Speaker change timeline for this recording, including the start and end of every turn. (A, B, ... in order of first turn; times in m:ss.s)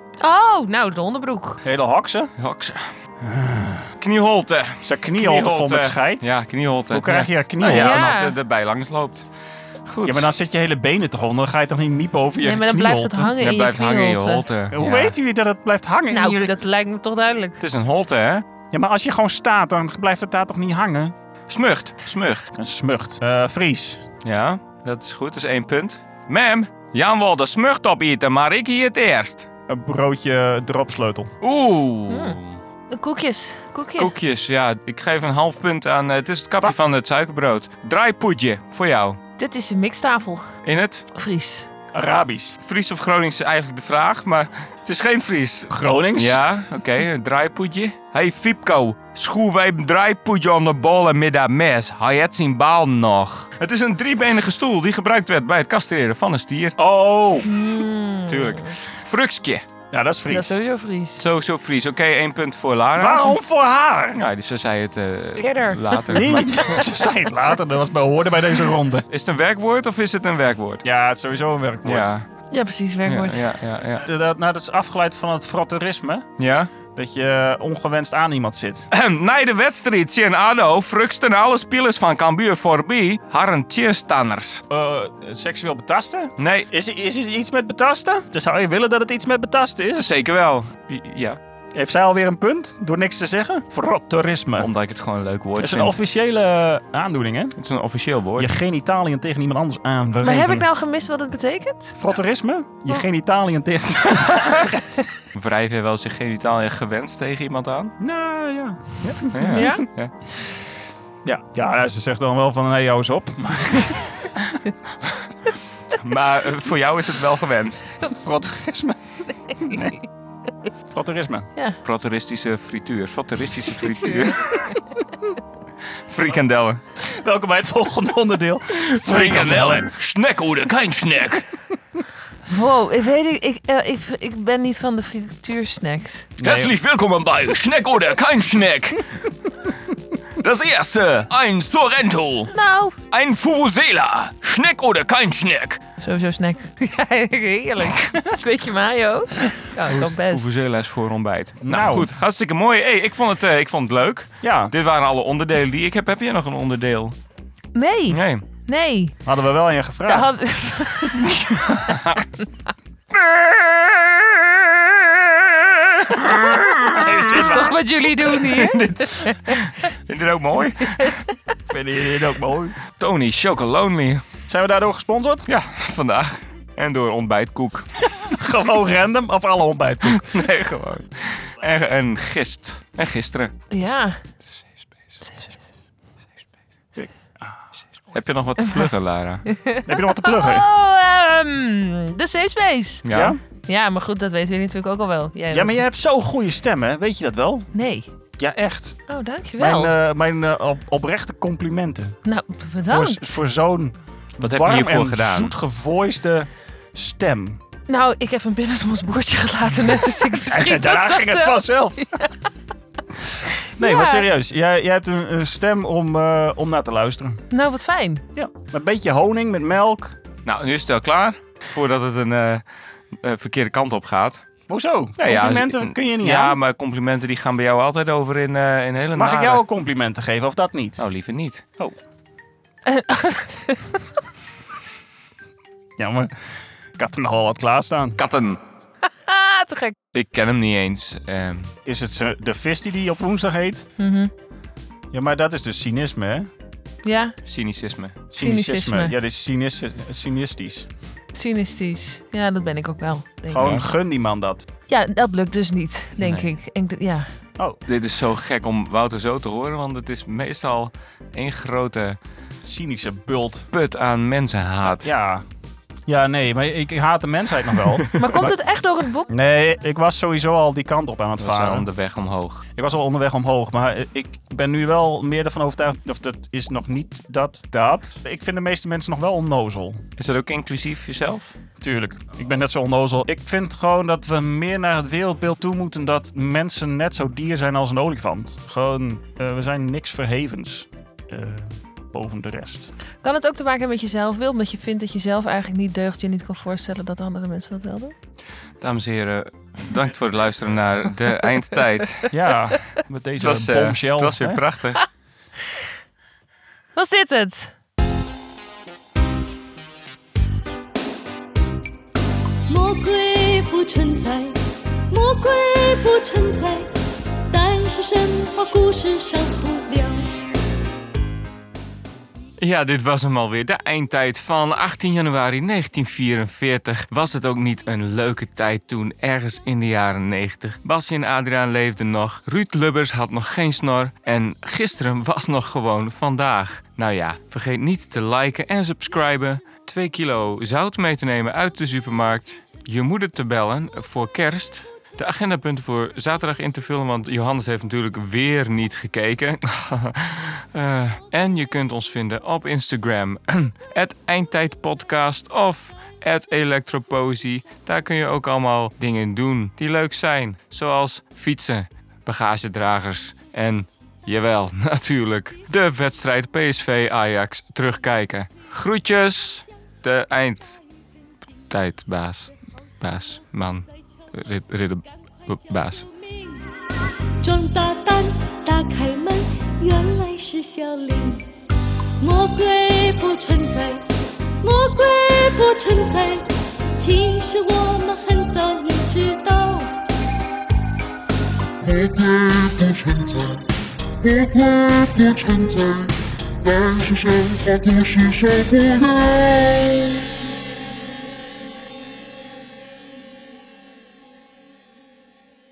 0:00.2-0:01.6 A
0:01.6-0:02.3 B
0:02.4-0:02.9 C
0:03.2-0:03.9 B
0:04.0-0:09.3 C
0:04.8-0:06.3 B
0:06.9-0:08.2 B
0:07.7-0:08.3 A
0:09.9-0:10.3 C
0:10.0-0:13.4 B
0:12.4-0:14.5 A
0:13.4-0:15.1 C
0:14.7-0:16.6 B
0:16.1-0:17.6 A
0:17.6-0:18.5 C
0:18.7-0:21.2 B
0:21.5-0:22.5 C
0:22.6-0:24.1 B
0:24.2-0:29.5 C
0:29.7-0:31.3 B
0:31.4-0:32.6 C
0:32.1-0:32.4 A
0:32.9-0:34.1 A
0:34.0-0:39.2 C
0:39.4-0:40.5 A
0:40.6-0:41.1 C
0:41.2-0:41.7 A
0:41.9-0:42.6 B
0:42.6-0:56.8 C
0:45.7-0:46.4 B
0:56.8-0:57.5 B
0:57.4-0:58.8 A
0:58.3-0:59.7 C
0:59.9-1:00.6 B
1:00.3-1:01.2 A
1:01.2-1:03.4 C
1:03.0-1:04.2 B
1:04.1-1:06.9 C
1:05.4-1:06.4 A
1:06.1-1:09.0 B
1:09.1-1:10.8 C
1:10.8-1:12.1 B
1:11.8-1:12.3 C
1:12.5-1:13.5 A
1:13.0-1:14.0 C
1:14.0-1:16.3 B
1:16.4-1:16.7 C
1:16.9-1:18.9 B
1:18.9-1:24.6 C
1:24.7-1:30.1 B
1:26.4-1:26.7 C
1:30.0-1:31.4 C
1:31.8-1:34.7 B
1:34.6-1:35.9 C
1:35.6-1:37.6 B
1:37.6-1:38.5 C
1:38.4-1:40.7 B
1:40.2-1:42.0 A
1:42.0-1:45.0 B
1:45.3-1:48.0 C
1:48.0-1:49.7 B
1:49.2-1:50.1 C
1:49.5-1:49.8 A
1:51.2-1:54.4 B
1:55.9-1:58.0 C
1:58.1-2:00.0 B
1:59.5-1:59.8 A
2:00.9-2:01.5 B
2:01.8-2:04.6 C
2:06.1-2:06.8 C
2:07.0-2:09.9 B
2:08.7-2:11.5 C
2:12.5-2:16.3 A
2:16.4-2:16.8 B
2:16.4-2:19.0 C
2:20.4-2:22.5 C
2:22.5-2:23.0 A
2:23.1-2:25.8 C
2:26.0-2:30.6 A
2:29.8-2:37.2 C
2:31.6-2:32.1 B
2:34.4-2:34.7 B
2:37.8-2:39.2 A
2:38.1-2:38.4 C
2:39.2-2:40.3 B
2:40.1-2:41.6 A
2:41.4-2:42.2 C
2:43.2-2:44.4 C
2:46.2-2:47.7 C
2:46.9-2:47.7 B
2:47.0-2:49.6 A
2:48.2-2:51.2 C
2:51.7-2:52.8 B
2:53.0-2:54.2 C
2:54.5-2:55.4 B
2:55.5-2:57.9 C
2:58.1-3:00.4 B
3:00.1-3:03.5 C
3:03.7-3:04.2 A
3:05.2-3:05.6 A
3:07.0-3:07.6 B
3:08.1-3:09.5 C
3:09.5-3:13.0 A
3:09.8-3:10.6 B
3:13.0-3:13.4 C
3:13.1-3:13.4 B
3:13.7-3:15.8 A
3:15.5-3:17.7 B
3:17.7-3:18.1 A
3:18.4-3:19.0 B
3:19.1-3:19.9 A
3:19.6-3:22.2 B
3:22.2-3:23.2 A
3:22.9-3:27.6 B
3:24.4-3:25.5 C
3:27.9-3:32.4 A
3:30.5-3:32.1 B
3:33.6-3:34.3 A
3:33.8-3:37.4 B
3:37.5-3:38.2 A
3:38.3-3:40.2 B
3:40.4-3:44.4 C
3:44.7-3:46.6 B
3:45.2-3:49.6 C
3:49.1-3:51.0 B
3:51.0-3:51.6 C
3:52.9-3:54.0 A
3:56.0-3:56.3 B
3:57.0-3:58.2 B
3:58.2-3:58.6 C
3:59.1-4:00.0 A
4:00.1-4:01.7 C
4:01.8-4:03.9 B
4:04.0-4:04.3 A
4:05.1-4:06.5 B
4:07.0-4:07.4 A
4:07.5-4:08.2 C
4:08.3-4:10.9 B
4:08.4-4:09.1 A
4:11.3-4:13.7 A
4:13.5-4:14.6 B
4:13.6-4:13.8 C
4:14.9-4:17.3 A
4:16.2-4:16.5 C
4:17.9-4:22.2 C
4:22.6-4:23.7 B
4:23.7-4:25.1 C
4:25.0-4:25.4 B
4:26.1-4:28.5 B
4:28.2-4:29.3 A
4:29.3-4:31.9 B
4:31.4-4:32.6 C
4:32.8-4:40.0 B
4:40.2-4:41.6 C
4:41.8-4:52.9 B
4:53.2-4:58.1 A
4:58.8-5:02.3 C
5:02.3-5:04.6 B
5:03.4-5:05.1 C
5:07.0-5:07.7 A
5:12.7-5:14.6 D
5:15.1-5:17.0 D
5:17.5-5:20.3 D
5:22.6-6:10.8 C
6:11.7-6:16.1 C
6:17.4-6:21.5 D
6:22.2-6:24.1 D
6:24.6-6:29.9 D
6:32.0-6:33.5 E
6:34.4-6:36.1 E
6:36.8-6:39.4 E